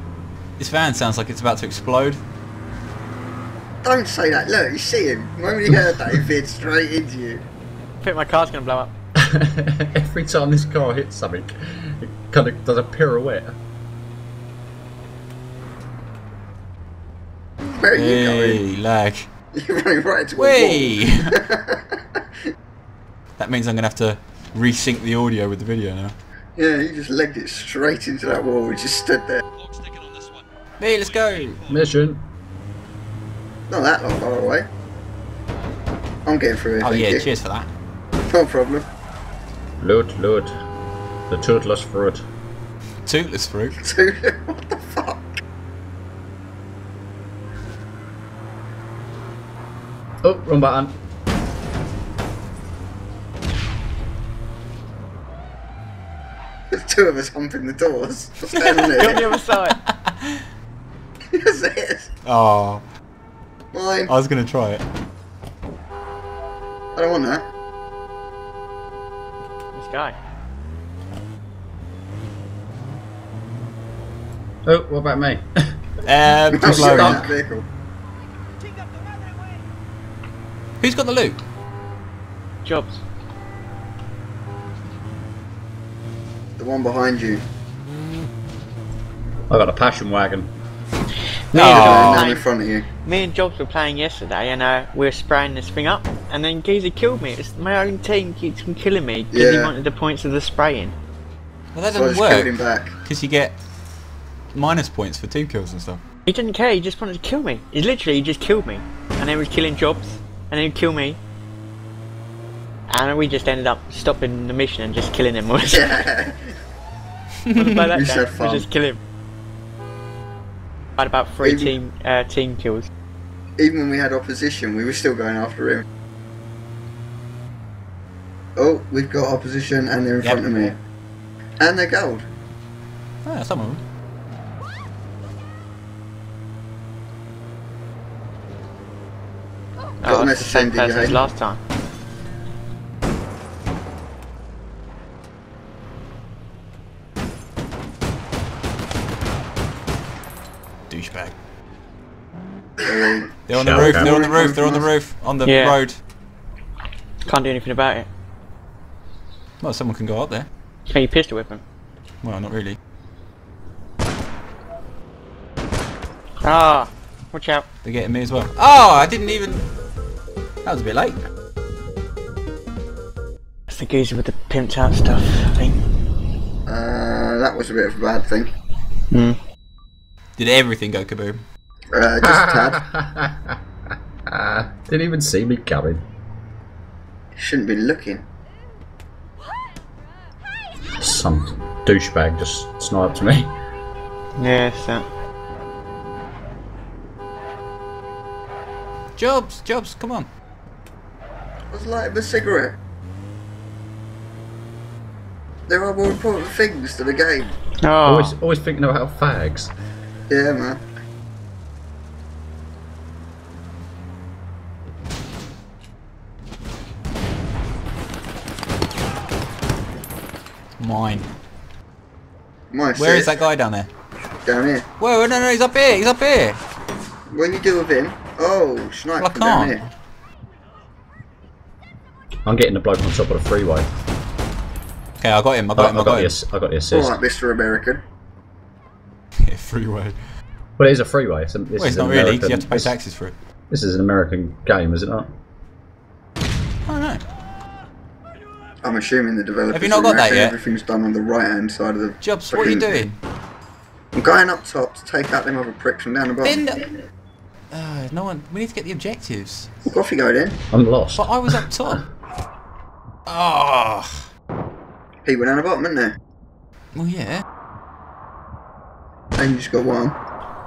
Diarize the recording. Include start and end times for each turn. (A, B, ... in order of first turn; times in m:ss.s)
0:00.6-0:02.2 A
0:03.8-0:07.4 B
0:08.0-0:08.9 C
0:09.2-0:13.6 D
0:17.8-0:18.6 B
0:18.0-0:19.3 A
0:19.5-0:22.0 B
0:20.4-0:21.4 A
0:23.4-0:26.2 A
0:26.6-0:29.4 B
0:30.8-0:31.6 A
0:31.7-0:32.2 D
0:33.7-0:34.7 B
0:36.2-0:37.2 B
0:36.8-0:37.7 A
0:38.3-0:38.9 B
0:39.8-0:40.5 D
0:41.3-0:42.2 D
0:43.1-0:43.8 A
0:43.8-0:45.2 B
0:50.2-0:51.0 D
0:56.7-0:59.3 B
0:58.5-1:00.4 A
0:58.9-0:59.8 C
1:01.3-1:02.1 B
1:02.2-1:02.8 A
1:03.7-1:04.1 B
1:04.1-1:04.8 A
1:07.0-1:07.4 B
1:09.8-1:10.2 C
1:14.7-1:15.8 D
1:16.0-1:17.3 A
1:16.5-1:17.7 B
1:20.8-1:21.4 A
1:22.6-1:23.0 C
1:26.6-1:27.4 B
1:29.5-1:30.5 D
1:31.5-1:32.5 C
1:31.5-1:32.3 A
1:31.7-1:32.9 B
1:33.0-1:41.0 C
1:39.3-1:39.7 B
1:41.8-1:42.5 A
1:41.9-1:43.0 B
1:43.0-1:43.6 A
1:44.5-1:46.0 A
1:46.3-1:51.2 C
1:52.9-1:56.0 C
1:55.7-1:56.5 B
1:57.5-1:57.9 A
1:57.6-1:59.0 C
1:57.9-1:58.7 B
2:01.0-2:02.9 C
2:01.4-2:01.7 B
2:03.6-2:05.8 B
2:08.6-2:10.8 B
2:10.2-2:10.7 A
2:11.6-2:12.3 B
2:13.2-2:13.8 A
2:20.0-2:21.6 C
2:20.0-2:21.2 B
2:30.9-2:31.3 A
2:32.8-2:34.9 B
2:33.5-2:36.0 A
2:33.5-2:34.1 D
2:35.4-2:35.8 C
2:37.2-2:38.1 C
2:39.6-2:40.5 A
2:40.9-2:41.6 C
2:42.2-2:42.8 A
2:46.4-2:47.7 C
2:47.8-2:49.7 A
2:50.6-2:51.2 A
2:53.7-2:55.8 C
2:56.7-2:58.5 B
2:59.1-2:59.4 C
3:00.4-3:01.4 A
3:01.9-3:02.8 B
3:02.2-3:03.6 D
3:04.3-3:06.0 D
3:07.4-3:08.2 B
3:11.0-3:13.5 D
3:14.4-3:15.1 C
3:19.2-3:20.3 A
3:21.7-3:22.8 B
3:25.7-3:27.5 B
3:27.8-3:28.4 C
3:28.0-3:29.7 D
3:30.3-3:30.8 B
3:40.8-3:41.3 A
3:42.7-3:43.4 B
3:43.0-3:43.9 A
3:44.5-3:44.9 B
3:45.0-3:46.6 A
3:47.3-3:49.8 B
3:49.2-3:49.8 A
3:52.5-3:53.9 D
3:55.2-3:56.4 A
3:55.8-3:57.2 D
3:56.9-3:58.0 B
3:59.4-4:00.2 A
4:00.8-4:02.9 D
4:01.8-4:03.4 A
4:03.7-4:05.3 D
4:06.9-4:07.2 A
4:08.8-4:13.0 B
4:09.7-4:10.6 A
4:12.2-4:13.2 A
4:14.2-4:16.6 B
4:16.4-4:16.8 A
4:17.7-4:19.7 A
4:19.9-4:20.6 B
4:20.7-4:21.6 D
4:21.2-4:22.0 A
4:23.3-4:24.3 A
4:25.2-4:26.2 B
4:27.0-4:27.4 A
4:29.4-4:30.2 B